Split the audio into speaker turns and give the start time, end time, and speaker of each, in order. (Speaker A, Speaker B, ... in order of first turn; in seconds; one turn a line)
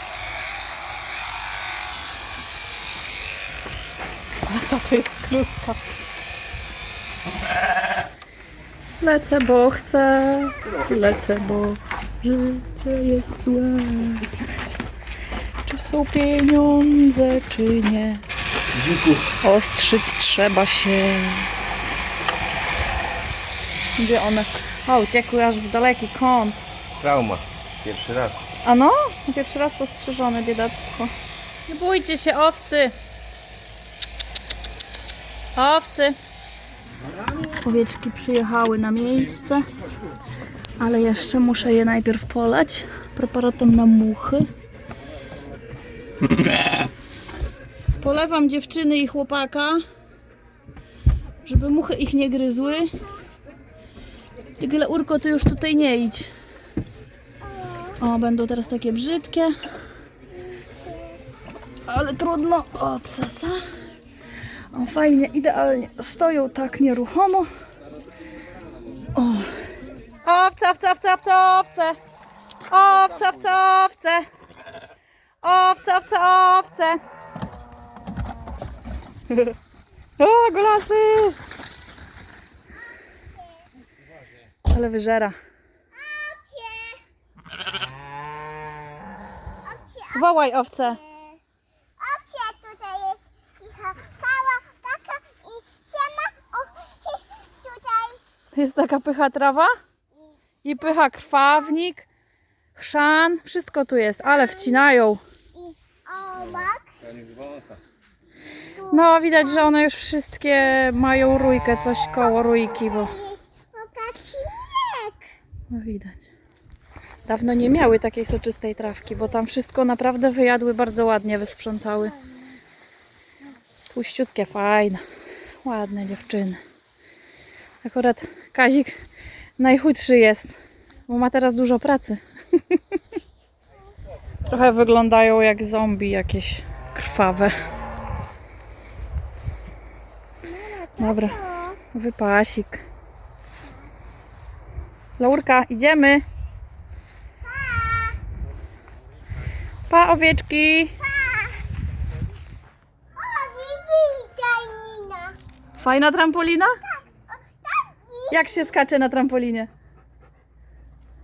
Speaker A: 4.5-5.8
Speaker A: 9.0-14.3
Speaker A: 15.7-18.2
Speaker B: 18.8-19.3
Speaker A: 19.4-21.5
Speaker A: 24.0-26.7
Speaker B: 27.0-28.5
Speaker A: 28.6-31.1
Speaker A: 31.7-33.0
Speaker A: 35.5-36.2
Speaker A: 37.5-39.7
Speaker A: 40.8-44.5
Speaker A: 48.0-49.8
Speaker A: 51.5-53.0
Speaker A: 54.6-56.3
Speaker A: 58.0-59.5
Speaker A: 61.9-63.6
Speaker A: 64.7-67.5
Speaker A: 69.2-69.6
Speaker A: 70.2-72.0
Speaker A: 72.7-74.3
Speaker A: 75.4-77.0
Speaker A: 80.2-81.4
Speaker A: 84.7-85.3
Speaker C: 85.9-87.0
Speaker C: 89.7-90.2
Speaker A: 90.1-91.0
Speaker C: 92.0-98.2
Speaker A: 98.5-99.7
Speaker A: 100.6-102.1
Speaker A: 102.8-105.2
Speaker C: 105.6-106.9
Speaker B: 106.4-107.8
Speaker A: 108.8-113.2
Speaker C: 113.2-115.3
Speaker A: 115.7-116.3
Speaker A: 117.2-122.2
Speaker A: 123.9-125.0
Speaker A: 125.6-126.6
Speaker A: 127.8-129.0
Speaker A: 129.6-132.8
Speaker A: 134.5-137.7
Speaker C: 140.5-141.8
Speaker A: 141.0-142.8
Speaker A: 145.2-146.2
Speaker C: 147.5-148.2
Speaker A: 149.9-151.0
Speaker C: 151.3-151.6
Speaker C: 153.2-155.4
Speaker A: 155.8-156.8
Speaker C: 157.6-158.3
Speaker A: 158.3-159.7